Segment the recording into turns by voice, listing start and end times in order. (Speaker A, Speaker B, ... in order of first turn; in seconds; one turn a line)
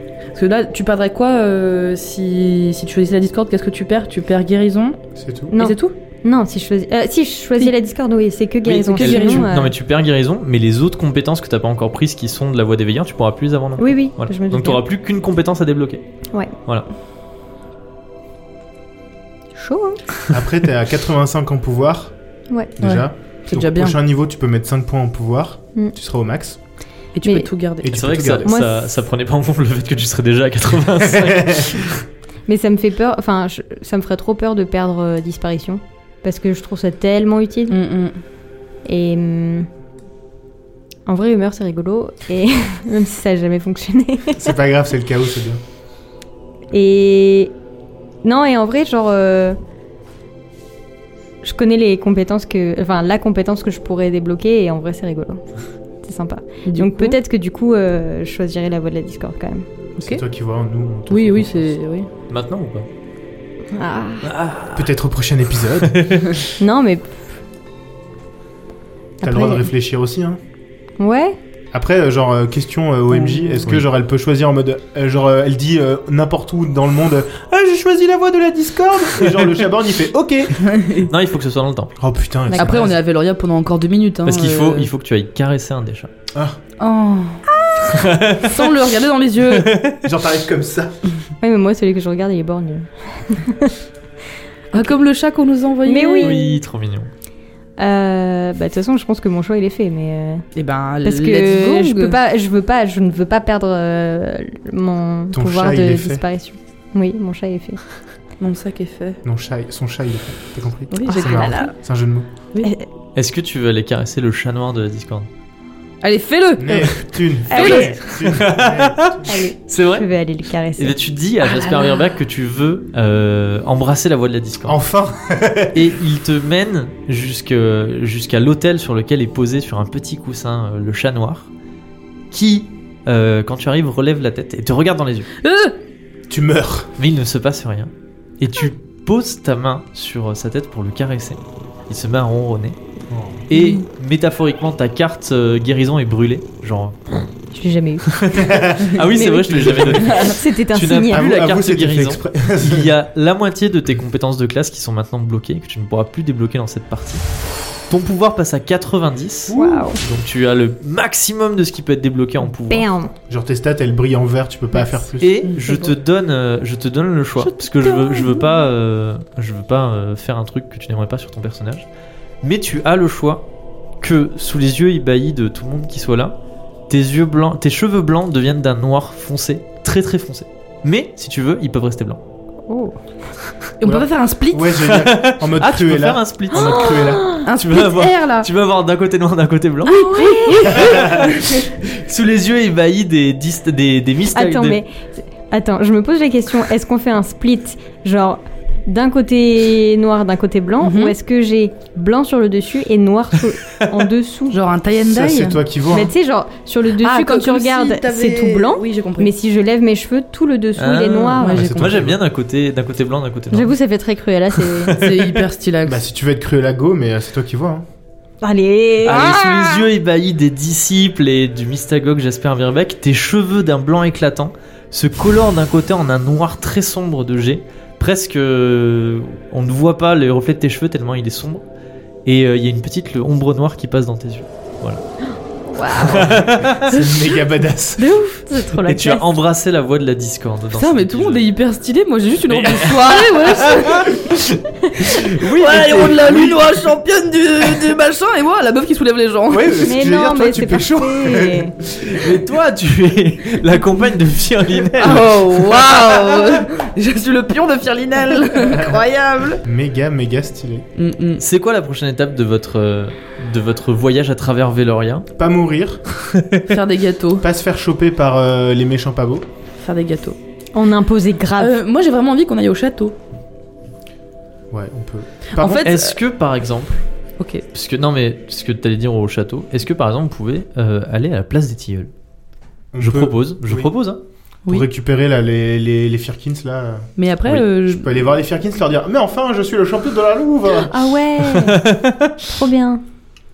Speaker A: 0.3-5.0
Speaker B: 5.2-5.5
Speaker C: 5.5-9.7
Speaker A: 5.5-5.9
Speaker D: 8.6-16.0
Speaker A: 8.9-9.5
Speaker C: 13.8-14.8
Speaker C: 19.6-20.0
Speaker B: 20.3-22.1
Speaker B: 22.8-26.6
Speaker A: 22.8-24.0
Speaker A: 27.1-27.9
Speaker C: 27.2-27.5
Speaker B: 27.8-28.5
Speaker D: 27.9-32.0
Speaker C: 28.4-28.7
Speaker B: 31.2-31.6
Speaker C: 32.5-37.8
Speaker A: 37.7-38.2
Speaker C: 38.8-39.7
Speaker C: 41.0-44.5
Speaker B: 44.4-45.6
Speaker C: 46.7-47.5
Speaker C: 48.2-49.6
Speaker C: 51.4-55.5
Speaker C: 56.0-59.7
Speaker A: 56.6-57.2
Speaker B: 60.0-61.8
Speaker A: 61.1-62.1
Speaker D: 62.3-62.9
Speaker C: 63.7-64.3
Speaker D: 64.2-64.9
Speaker B: 64.7-66.0
Speaker D: 65.8-66.4
Speaker C: 66.6-67.1
Speaker C: 69.2-69.7
Speaker B: 69.2-70.4
Speaker C: 71.0-71.4
Speaker B: 71.7-80.7
Speaker A: 73.2-73.5
Speaker A: 80.6-81.1
Speaker D: 81.0-81.9
Speaker B: 82.0-83.0
Speaker C: 82.5-82.7
Speaker A: 82.5-84.9
Speaker D: 84.2-86.1
Speaker A: 86.8-87.4
Speaker C: 87.7-87.9
Speaker D: 87.9-88.7
Speaker A: 88.4-89.7
Speaker D: 89.5-90.0
Speaker B: 90.0-90.9
Speaker C: 91.4-93.8
Speaker A: 94.7-96.4
Speaker C: 95.8-96.6
Speaker D: 96.2-97.1
Speaker C: 97.8-100.4
Speaker A: 100.5-102.2
Speaker C: 101.0-107.8
Speaker B: 105.3-106.2
Speaker A: 108.4-109.2
Speaker B: 109.2-112.3
Speaker A: 110.9-111.7
Speaker C: 111.1-111.7
Speaker C: 112.6-112.8
Speaker D: 113.1-115.3
Speaker A: 116.0-118.0
Speaker B: 116.6-119.3
Speaker C: 117.5-118.0
Speaker D: 118.1-120.0
Speaker C: 119.3-122.1
Speaker D: 120.8-124.8
Speaker B: 124.7-125.8
Speaker D: 125.7-131.5
Speaker D: 132.3-135.3
Speaker A: 135.4-135.8
Speaker B: 136.3-136.9
Speaker D: 137.0-142.8
Speaker B: 143.1-143.4
Speaker D: 143.5-147.0
Speaker C: 147.5-148.2
Speaker D: 148.1-157.2
Speaker B: 148.3-150.3
Speaker C: 149.1-151.2
Speaker B: 151.1-152.9
Speaker D: 157.9-162.9
Speaker B: 159.5-159.9
Speaker C: 159.5-160.0
Speaker C: 162.7-163.1
Speaker B: 163.3-165.5
Speaker D: 165.2-171.8
Speaker A: 165.5-165.9
Speaker A: 167.4-168.4
Speaker D: 172.4-173.4
Speaker D: 174.0-176.4
Speaker D: 176.9-182.2
Speaker C: 182.7-183.0
Speaker A: 183.8-184.8
Speaker B: 183.8-187.4
Speaker D: 184.8-190.0
Speaker C: 186.5-187.5
Speaker A: 187.4-188.5
Speaker A: 189.8-191.6
Speaker C: 189.9-190.8
Speaker D: 190.6-194.8
Speaker B: 190.8-191.2
Speaker C: 194.3-194.9
Speaker C: 195.5-204.6
Speaker A: 200.8-201.2
Speaker A: 204.5-205.6
Speaker B: 205.1-206.1
Speaker C: 205.9-211.8
Speaker A: 207.0-209.3
Speaker D: 210.8-213.7
Speaker A: 211.4-211.9
Speaker B: 211.5-212.2
Speaker C: 213.5-214.9
Speaker D: 214.6-215.4
Speaker A: 214.9-216.0
Speaker B: 215.8-217.8
Speaker C: 218.4-219.4
Speaker D: 219.0-231.6
Speaker A: 219.1-219.8
Speaker D: 232.2-235.0
Speaker C: 235.7-236.3
Speaker D: 236.0-237.0
Speaker B: 236.1-238.1
Speaker C: 238.0-239.3
Speaker D: 238.8-241.4
Speaker A: 240.7-244.3
Speaker D: 242.5-246.8
Speaker A: 245.1-249.9
Speaker B: 249.5-251.7
Speaker C: 249.8-251.7
Speaker D: 251.9-256.5
Speaker A: 255.0-259.6
Speaker B: 258.6-259.0
Speaker B: 259.6-260.8
Speaker A: 260.9-261.4
Speaker D: 261.4-265.2
Speaker B: 265.4-266.0
Speaker D: 266.3-266.7
Speaker A: 266.7-267.4
Speaker B: 267.4-269.4
Speaker A: 269.8-270.4
Speaker C: 270.7-271.7
Speaker A: 271.6-273.1
Speaker B: 274.7-275.9
Speaker A: 275.5-276.2
Speaker D: 275.6-277.0
Speaker A: 277.4-277.6
Speaker D: 277.7-282.1
Speaker B: 282.9-283.9
Speaker D: 283.0-284.2
Speaker B: 284.7-290.9
Speaker A: 287.2-288.1
Speaker C: 290.8-293.0
Speaker D: 291.6-292.3